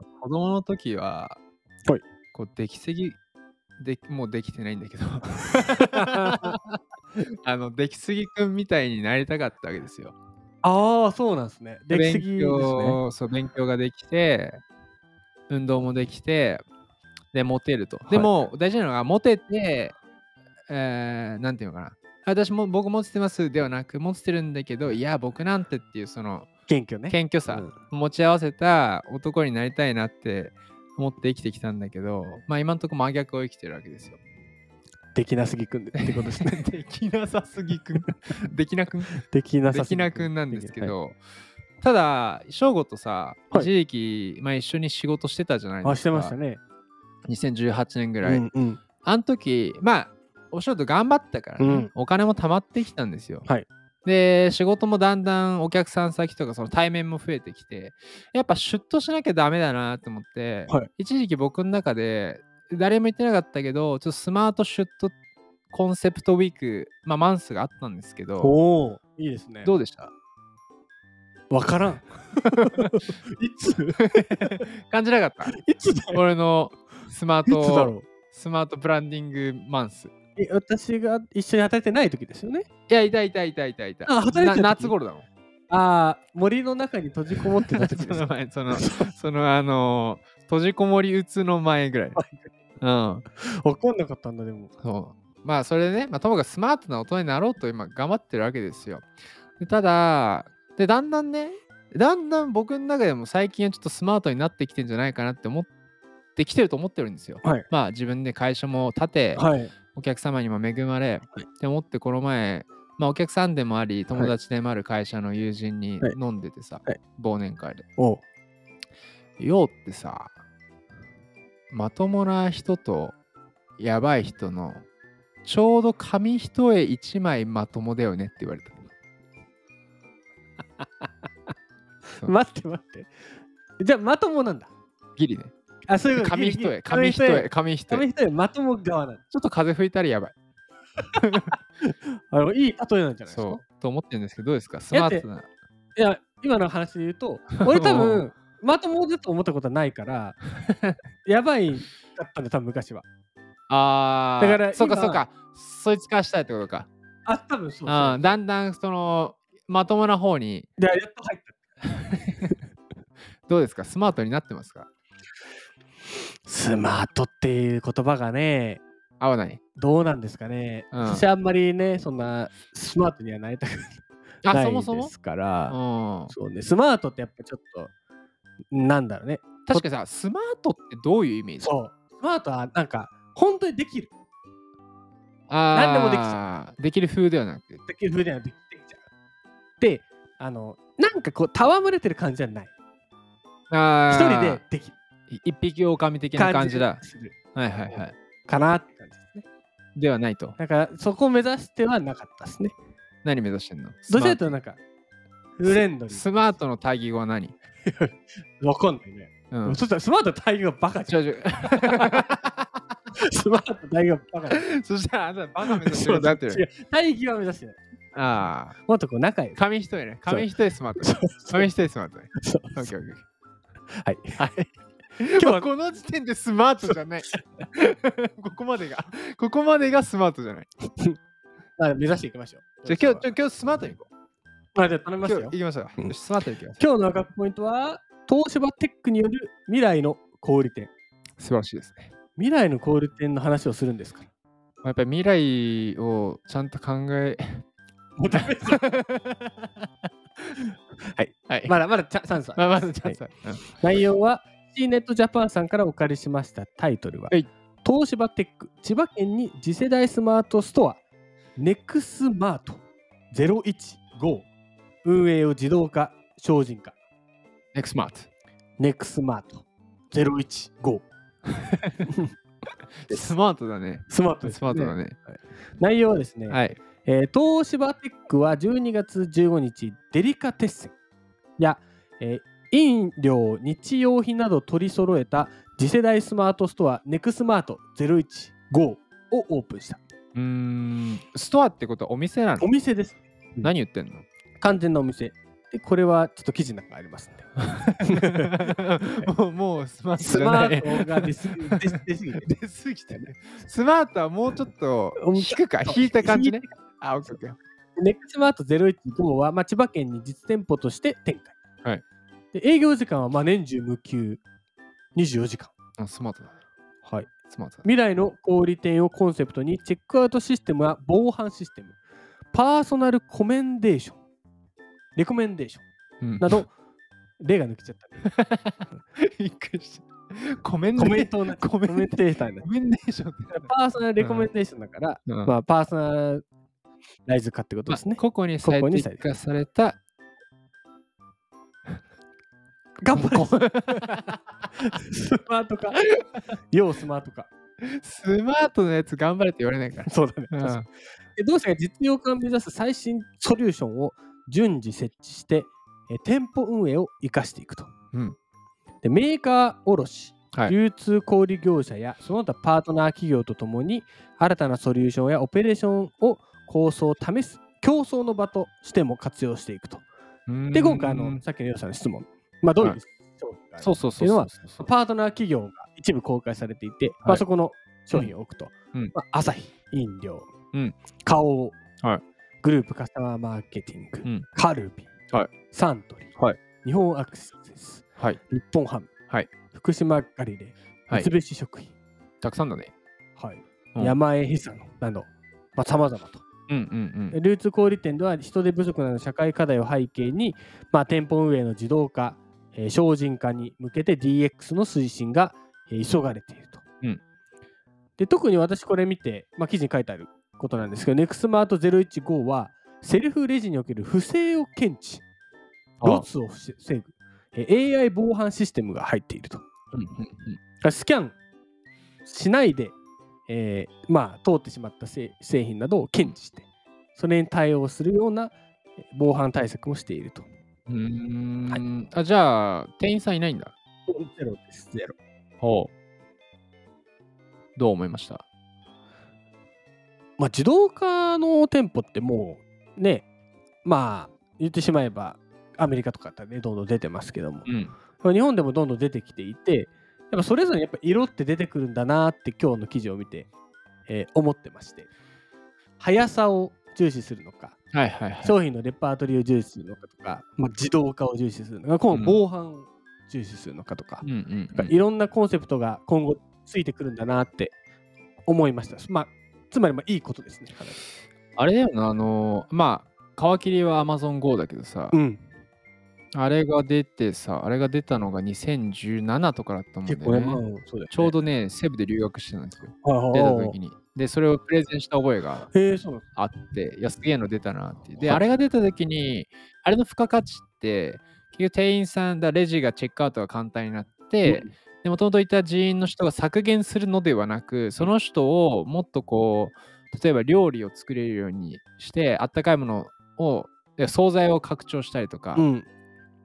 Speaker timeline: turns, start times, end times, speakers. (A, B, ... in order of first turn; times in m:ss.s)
0:00.2-0:01.4 A
0:02.3-0:03.2 A
0:03.8-0:06.8 A
0:05.9-0:06.5 B
0:07.4-0:10.2 A
0:10.6-0:13.0 B
0:11.9-0:14.6 A
0:15.5-0:16.6 A
0:17.3-0:20.0 A
0:18.1-0:18.3 B
0:20.7-0:26.5 A
0:26.7-0:27.7 B
0:27.1-0:34.2 A
0:35.1-0:36.6 B
0:36.0-0:41.2 A
0:39.2-0:41.0 B
0:41.8-0:46.4 A
0:45.8-0:46.6 B
0:47.3-0:48.4 A
0:48.2-0:48.8 B
0:49.0-0:53.5 A
0:51.6-0:51.9 B
0:54.0-1:05.1 A
1:05.7-1:08.6 A
1:08.4-1:09.7 B
1:09.6-1:10.1 A
1:11.5-1:14.6 B
1:12.4-1:13.0 A
1:14.0-1:15.6 A
1:15.5-1:16.2 B
1:16.1-1:20.1 A
1:17.5-1:18.1 B
1:20.4-1:22.7 B
1:22.9-1:25.3 A
1:24.1-1:25.0 B
1:25.7-1:29.1 B
1:27.7-1:32.2 A
1:32.2-1:32.5 B
1:32.8-1:33.2 A
1:33.4-1:34.7 B
1:34.8-1:39.0 A
1:39.6-1:45.7 A
1:46.4-1:57.9 A
1:49.4-1:49.7 B
1:58.0-1:58.2 B
1:59.4-2:00.3 A
2:01.7-2:03.2 A
2:03.8-2:04.8 A
2:05.4-2:08.8 A
2:12.2-2:13.1 B
2:13.8-2:14.7 B
2:15.2-2:15.5 A
2:15.9-2:19.2 B
2:16.2-2:18.1 A
2:19.3-2:20.4 A
2:21.2-2:21.5 A
2:21.8-2:23.6 B
2:23.3-2:25.5 A
2:24.9-2:25.3 B
2:26.0-2:30.4 B
2:27.6-2:28.3 A
2:31.2-2:33.1 B
2:33.7-2:36.9 A
2:34.4-2:35.2 B
2:37.3-2:38.4 B
2:37.9-2:40.7 A
2:40.8-2:41.6 B
2:41.8-2:42.5 A
2:43.5-2:44.9 A
2:46.4-2:48.8 B
2:49.2-2:49.6 A
2:49.8-2:55.8 B
2:50.9-2:51.3 A
2:54.4-2:55.1 A
2:55.7-2:56.3 A
2:56.3-2:57.9 B
2:58.7-2:59.9 B
2:59.7-3:01.7 A
3:01.6-3:04.1 B
3:05.5-3:07.8 A
3:05.7-3:06.4 B
3:07.9-3:09.0 B
3:09.8-3:12.7 B
3:13.7-3:14.6 A
3:14.1-3:15.0 B
3:15.3-3:17.0 A
3:16.4-3:17.4 B
3:17.5-3:18.2 A
3:18.5-3:19.4 B
3:20.0-3:20.6 A
3:20.6-3:22.8 B
3:23.2-3:24.6 A
3:24.1-3:24.8 B
3:25.6-3:26.2 B
3:25.7-3:27.6 A
3:27.9-3:32.2 B
3:29.5-3:29.8 A
3:31.1-3:32.7 A
3:33.2-3:34.6 B
3:34.5-3:36.6 A
3:35.7-3:37.8 B
3:38.1-3:38.8 A
3:38.8-3:39.6 B
3:39.6-3:43.2 A
3:40.3-3:41.7 B
3:42.4-3:42.9 B
3:44.0-3:44.4 B
3:44.4-3:50.7 A
3:45.4-3:45.7 B
3:46.9-3:47.4 B
3:51.8-3:53.3 B
3:52.9-3:54.1 A
3:54.7-3:56.2 B
3:55.2-3:56.8 A
3:56.8-4:00.9 B
4:01.4-4:02.1 A
4:02.4-4:04.3 B
4:04.8-4:07.6 A
4:08.2-4:08.8 B
4:08.3-4:09.9 A
4:11.1-4:21.0 B
4:11.5-4:11.8 A
4:12.6-4:13.8 A
4:21.6-4:24.5 B
4:25.0-4:27.0 B
4:27.7-4:28.3 A
4:28.8-4:31.0 B
4:31.5-4:32.0 A
4:33.1-4:35.2 A
4:34.1-4:40.9 B
4:36.5-4:36.8 A
4:41.6-4:50.0 B
4:50.4-4:52.7 A
4:52.6-4:53.7 B
4:53.6-4:54.2 A
4:54.6-4:58.5 B
4:57.7-5:07.6 A
5:00.2-5:02.5 B
5:05.2-5:06.7 B
5:08.0-5:11.6 B
5:12.5-5:14.4 B
5:15.2-5:15.7 B
5:16.0-5:16.5 A
5:17.0-5:17.3 B
5:17.5-5:17.9 A
5:17.8-5:22.0 B
5:22.5-5:24.2 B
5:25.2-5:25.8 B
5:26.2-5:26.6 A
5:26.4-5:26.7 B
5:27.4-5:28.3 B
5:28.2-5:34.5 A
5:31.0-5:32.7 B
5:33.5-5:36.4 B
5:35.3-5:35.6 A
5:37.3-5:39.2 B
5:37.9-5:40.0 A
5:43.0-5:44.0 B
5:43.1-5:44.4 A
5:44.8-5:46.1 B
5:46.7-5:47.5 B
5:47.8-5:50.9 A
5:50.1-5:50.8 B
5:51.4-5:57.9 B
5:59.0-6:10.0 B
6:10.5-6:11.4 A
6:10.7-6:20.5 B
6:13.8-6:14.8 A
6:21.2-6:21.8 B
6:22.6-6:25.1 B
6:25.7-6:29.1 B
6:29.7-6:31.9 B
6:32.4-6:32.9 A
6:33.4-6:36.4 B
6:36.7-6:37.4 A
6:37.3-6:46.8 B
6:48.2-6:55.2 B
6:56.0-6:56.3 A
6:56.0-6:59.6 B
6:59.9-7:00.6 A
7:00.8-7:01.4 B
7:02.2-7:03.0 B
7:03.5-7:10.5 B
7:10.9-7:13.7 A
7:14.1-7:15.2 B
7:15.6-7:15.9 A
7:17.8-7:18.4 A
7:20.4-7:23.3 B
7:23.8-7:33.5 B
7:27.7-7:27.9 A
7:34.1-7:35.1 B
7:36.0-7:37.8 B
7:37.9-7:38.6 A
7:38.4-7:47.8 B
7:42.1-7:42.4 A
7:44.2-7:45.0 A
7:48.5-7:51.1 B
7:51.6-7:55.2 A
7:55.1-7:55.4 B
7:56.3-8:05.7 A
8:00.1-8:01.4 B
8:03.0-8:03.8 B
8:05.7-8:06.2 B
8:06.4-8:25.7 A
8:08.2-8:08.5 B
8:14.5-8:14.7 B
8:25.6-8:25.9 B